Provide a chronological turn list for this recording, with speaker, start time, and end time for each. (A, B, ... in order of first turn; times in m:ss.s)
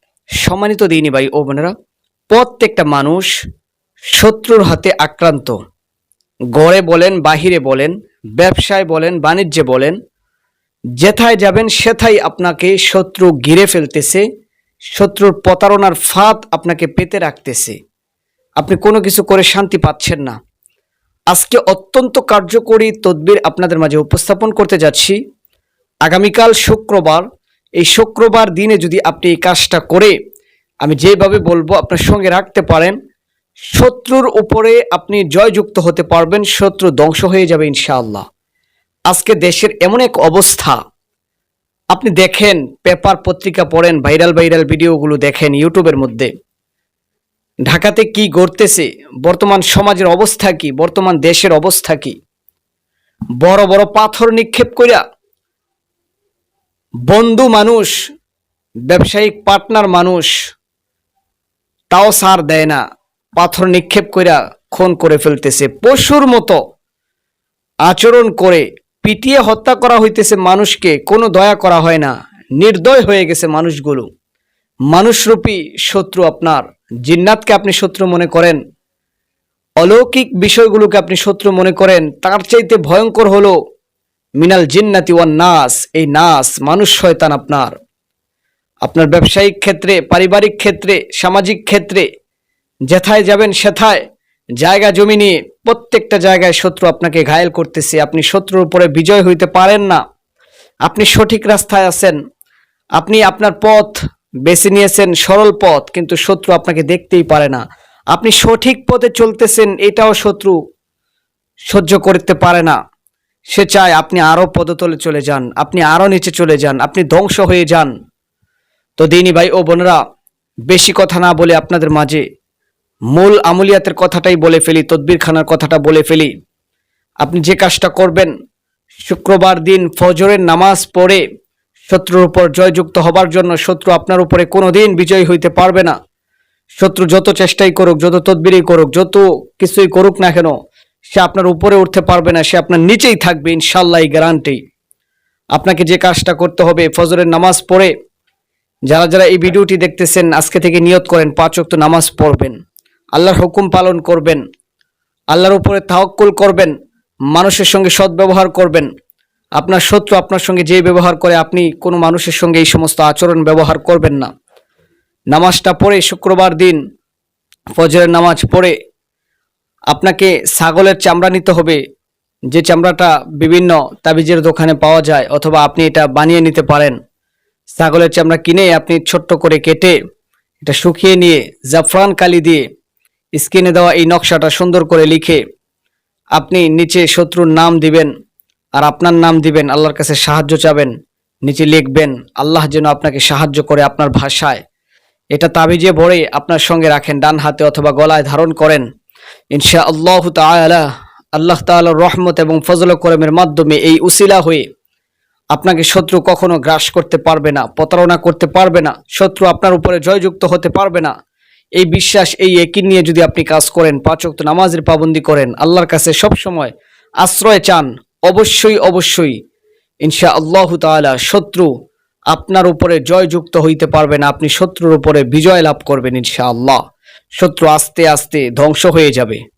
0:00.4-0:01.7 A
0:02.3-0:03.3 A
0:04.1-0:05.6 A
0:06.5-0:10.0 A
0:11.0-0:14.2 A
0:14.9-0:17.8 A
0:18.6-0:20.4 A
0:21.3-0:25.2 A
0:26.0-0:27.3 A
0:27.8-0:30.1 A
0:30.8-0:33.0 A
0:33.7-0:38.2 A
0:39.1-0:40.8 A
0:41.9-0:46.3 A
0:47.7-0:52.2 A
0:53.4-0:55.0 A
0:57.1-0:58.0 A
0:58.9-1:00.3 A
1:01.9-1:02.8 A
1:03.4-1:06.6 A
1:07.9-1:14.1 A
1:14.9-1:18.6 A
1:19.8-1:23.6 A
1:24.4-1:27.7 A
1:28.8-1:32.1 A
1:32.9-1:34.0 A
1:34.6-1:40.0 A
1:40.9-1:42.2 A
1:43.0-1:50.6 A
1:51.7-1:52.8 A
1:53.5-1:57.9 A
1:59.0-2:00.0 A
2:00.7-2:02.2 A
2:03.1-2:06.3 A
2:07.2-2:08.3 A
2:09.0-2:11.2 A
2:11.9-2:15.9 A
2:16.8-2:20.5 A
2:21.1-2:24.6 A
2:25.5-2:27.9 A
2:28.9-2:32.5 A
2:33.2-2:34.4 A
2:35.3-2:36.7 A
2:37.3-2:38.9 A
2:39.6-2:44.3 A
2:45.3-2:46.8 A
2:47.8-2:48.7 A
2:49.9-2:51.8 A
2:52.5-2:57.0 A
2:57.7-2:59.9 A
3:00.6-3:02.6 A
3:03.4-3:05.4 A
3:06.4-3:08.1 A
3:08.8-3:10.9 A
3:11.4-3:14.6 A
3:15.3-3:18.8 A
3:19.5-3:24.6 A
3:25.5-3:31.1 A
3:31.8-3:39.4 A
3:40.0-3:41.7 A
3:42.3-3:46.8 A
3:47.4-3:49.4 A